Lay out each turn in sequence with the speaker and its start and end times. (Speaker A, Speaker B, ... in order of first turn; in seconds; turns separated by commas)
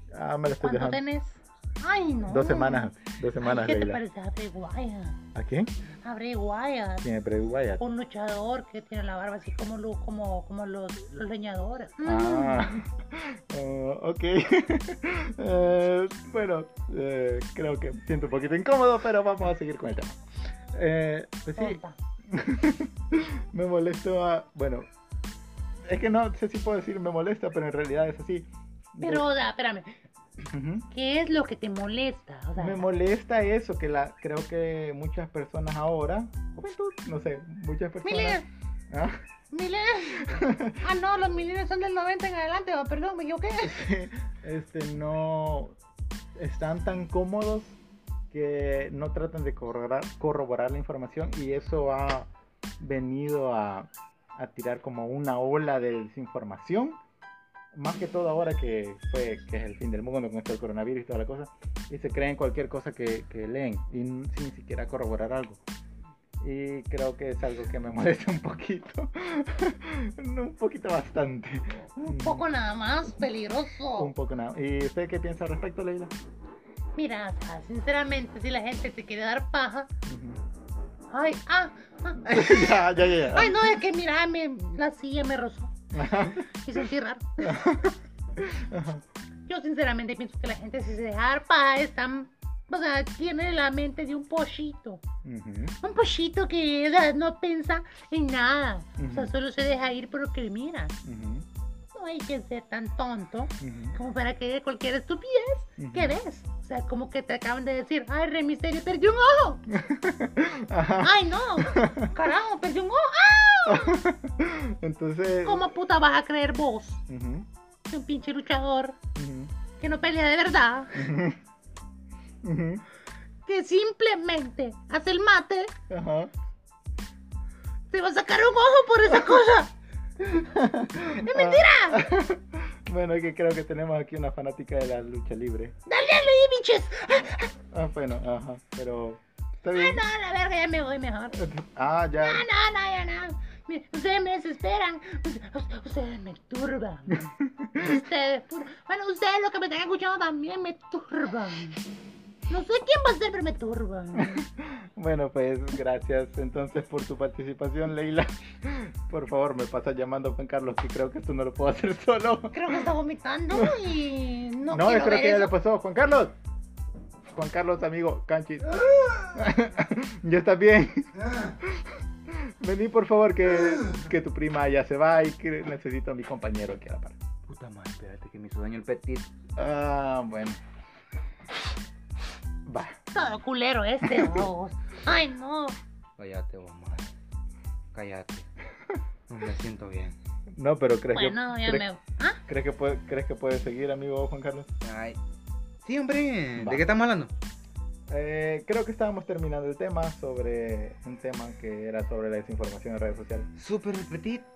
Speaker A: 0.1-1.0, Speaker B: 0.6-5.2, Speaker A: 2.3-4.0, Speaker A: 5.3-5.7, Speaker B: 6.0-7.0, Speaker A: 7.0-7.8, Speaker B: 7.8-12.8, Speaker A: 12.0-20.2, Speaker A: 20.7-24.9, Speaker B: 21.6-22.0, Speaker A: 25.9-29.3, Speaker B: 29.0-30.0, Speaker A: 30.5-30.9, Speaker B: 30.9-32.8, Speaker A: 32.6-39.2, Speaker B: 38.0-38.5, Speaker B: 39.5-43.8, Speaker A: 40.2-40.8, Speaker A: 43.6-45.8, Speaker A: 46.4-47.8, Speaker A: 48.3-52.3, Speaker A: 52.8-57.0, Speaker A: 57.7-65.6, Speaker A: 66.4-72.5, Speaker B: 72.0-74.1, Speaker A: 74.0-76.1, Speaker B: 77.0-79.9, Speaker A: 80.1-80.4, Speaker B: 81.1-85.7, Speaker A: 82.3-83.7, Speaker A: 85.9-86.5, Speaker B: 86.5-87.5, Speaker A: 87.4-89.0, Speaker B: 89.5-95.0, Speaker A: 95.2-95.8, Speaker B: 95.8-100.9, Speaker A: 99.0-99.3, Speaker A: 101.0-101.5, Speaker B: 101.9-109.7, Speaker A: 103.6-104.0, Speaker A: 105.8-106.2, Speaker A: 109.7-112.1, Speaker B: 111.0-114.0, Speaker A: 113.7-115.6, Speaker B: 115.5-117.0, Speaker A: 117.1-117.5, Speaker B: 117.9-119.0, Speaker A: 119.2-119.5, Speaker B: 119.8-121.1, Speaker A: 121.0-121.4, Speaker A: 122.4-122.8, Speaker B: 123.5-125.7, Speaker A: 125.9-126.3, Speaker B: 127.9-129.7, Speaker A: 130.2-135.8, Speaker B: 131.1-132.0, Speaker B: 135.9-137.5, Speaker A: 137.7-140.0, Speaker B: 139.7-141.4, Speaker A: 141.4-142.5, Speaker B: 142.2-151.8, Speaker A: 147.1-148.0, Speaker B: 152.5-154.4, Speaker A: 154.2-162.9, Speaker B: 162.5-165.5, Speaker A: 163.5-163.8, Speaker A: 164.7-166.3, Speaker A: 167.3-177.2, Speaker C: 177.5-179.3, Speaker A: 179.6-180.6, Speaker A: 182.7-183.0, Speaker B: 183.1-185.8, Speaker A: 184.0-184.5, Speaker C: 186.2-187.1, Speaker C: 187.9-188.5, Speaker C: 189.3-190.2, Speaker A: 190.6-191.8, Speaker B: 191.1-192.4, Speaker A: 192.5-194.7, Speaker C: 194.8-195.2, Speaker C: 195.8-197.3, Speaker A: 196.6-196.8, Speaker A: 198.1-203.5, Speaker C: 203.6-204.5